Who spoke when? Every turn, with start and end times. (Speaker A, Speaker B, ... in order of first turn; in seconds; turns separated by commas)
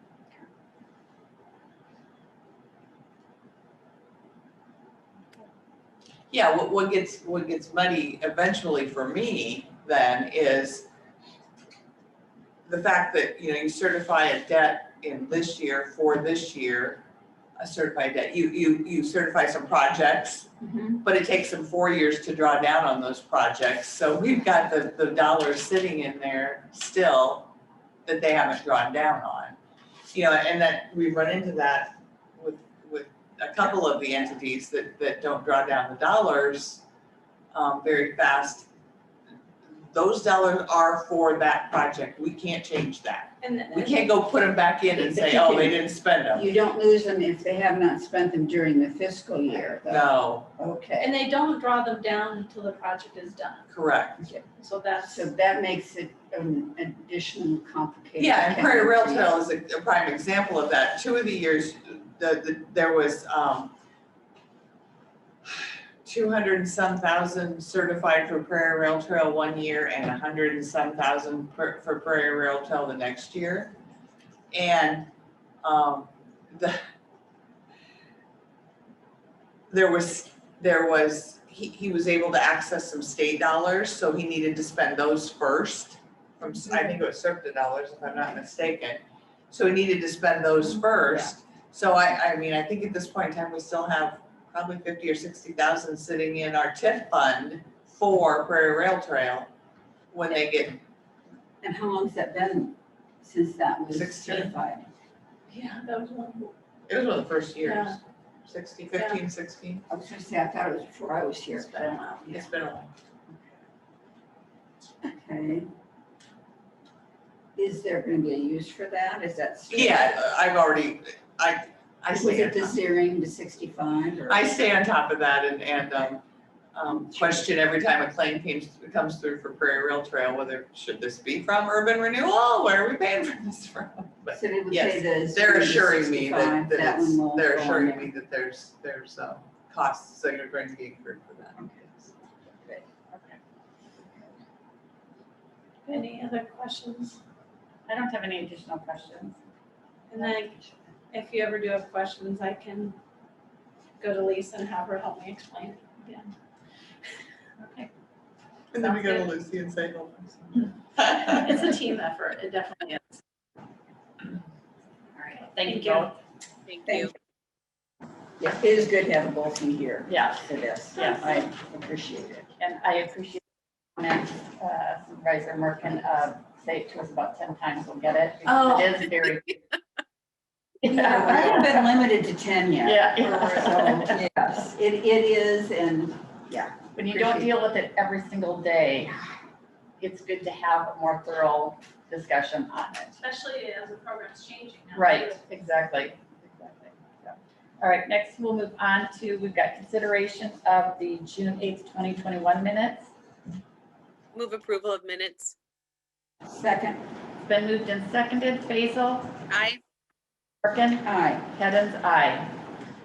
Speaker A: 6.3-10.9, Speaker A: 12.7-17.0, Speaker A: 17.6-20.5, Speaker B: 20.6-21.0, Speaker A: 21.0-27.5, Speaker A: 28.1-29.6, Speaker A: 30.1-36.8, Speaker A: 37.5-38.7, Speaker A: 39.8-46.5, Speaker C: 43.4-44.1, Speaker B: 44.9-45.8, Speaker B: 46.3-51.1, Speaker A: 49.7-50.5, Speaker C: 51.0-53.7, Speaker A: 53.7-54.2, Speaker C: 54.6-55.3, Speaker B: 55.0-59.4, Speaker A: 58.2-63.7, Speaker A: 65.5-73.8, Speaker A: 74.5-75.1, Speaker A: 75.6-76.8, Speaker A: 79.7-99.5, Speaker A: 100.1-100.8, Speaker B: 101.6-104.9, Speaker A: 103.9-104.6, Speaker A: 105.5-105.8, Speaker C: 105.8-106.5, Speaker A: 106.9-109.8, Speaker C: 107.6-108.0, Speaker C: 108.9-109.2, Speaker B: 109.9-112.5, Speaker C: 111.6-112.3, Speaker A: 112.3-112.9, Speaker B: 115.0-115.7, Speaker B: 117.5-120.2, Speaker A: 119.7-122.8, Speaker B: 122.2-124.5, Speaker A: 124.3-126.2, Speaker A: 126.7-141.7, Speaker B: 126.9-127.5, Speaker B: 134.3-138.1, Speaker B: 141.6-142.9, Speaker D: 143.1-143.4, Speaker C: 145.9-147.2, Speaker D: 147.9-149.4, Speaker C: 150.1-150.6, Speaker D: 150.2-150.7, Speaker C: 151.1-153.0, Speaker C: 154.0-156.3, Speaker D: 157.6-157.9, Speaker A: 158.7-161.1, Speaker C: 158.8-159.3, Speaker C: 161.0-163.2, Speaker D: 165.2-166.2, Speaker C: 165.6-166.1, Speaker E: 166.7-167.1, Speaker B: 166.9-167.1, Speaker B: 168.4-172.5, Speaker D: 170.1-171.4, Speaker D: 172.6-173.4, Speaker D: 174.0-179.6, Speaker D: 180.8-182.0, Speaker B: 180.9-187.5, Speaker D: 182.8-184.2, Speaker D: 187.0-189.2, Speaker D: 190.0-193.2, Speaker C: 193.2-195.4, Speaker D: 194.9-203.1, Speaker E: 204.3-205.6, Speaker B: 206.5-207.0, Speaker D: 207.4-209.4, Speaker E: 209.5-209.8, Speaker D: 210.6-212.6, Speaker B: 211.0-211.5